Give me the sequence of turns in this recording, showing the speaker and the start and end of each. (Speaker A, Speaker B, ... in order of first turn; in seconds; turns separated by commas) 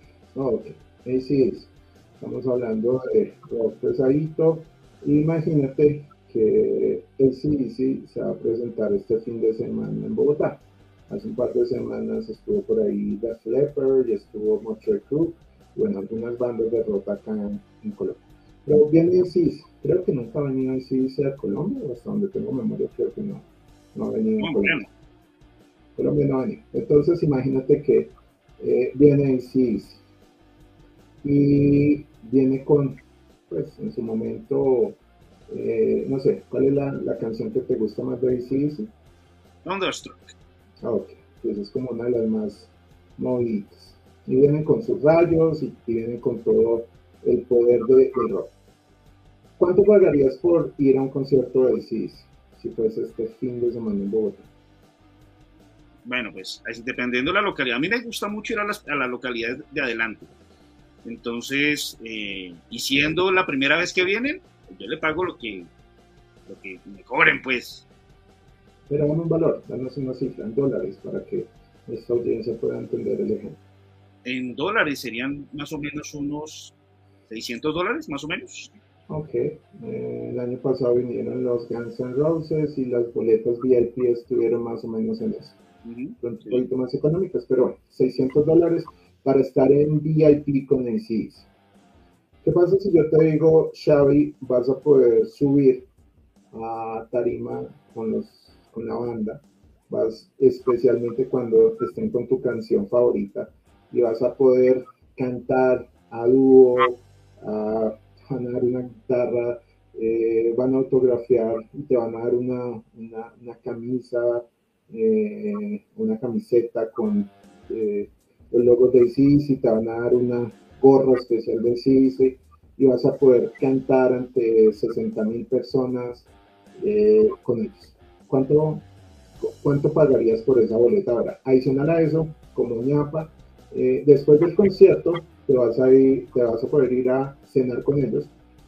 Speaker A: 0.3-24.8, Speaker B: 24.4-24.9, Speaker A: 25.9-30.0, Speaker A: 31.2-35.0, Speaker A: 35.5-38.9, Speaker B: 39.6-40.3, Speaker A: 40.8-48.5, Speaker A: 49.6-54.5, Speaker B: 56.0-60.3, Speaker B: 61.0-65.7, Speaker B: 66.5-67.8, Speaker A: 68.9-73.6, Speaker B: 74.2-76.7, Speaker B: 77.3-78.7, Speaker A: 79.1-85.6, Speaker B: 85.8-86.6, Speaker A: 86.2-91.5, Speaker A: 92.4-95.9, Speaker A: 96.5-128.8, Speaker A: 129.4-138.3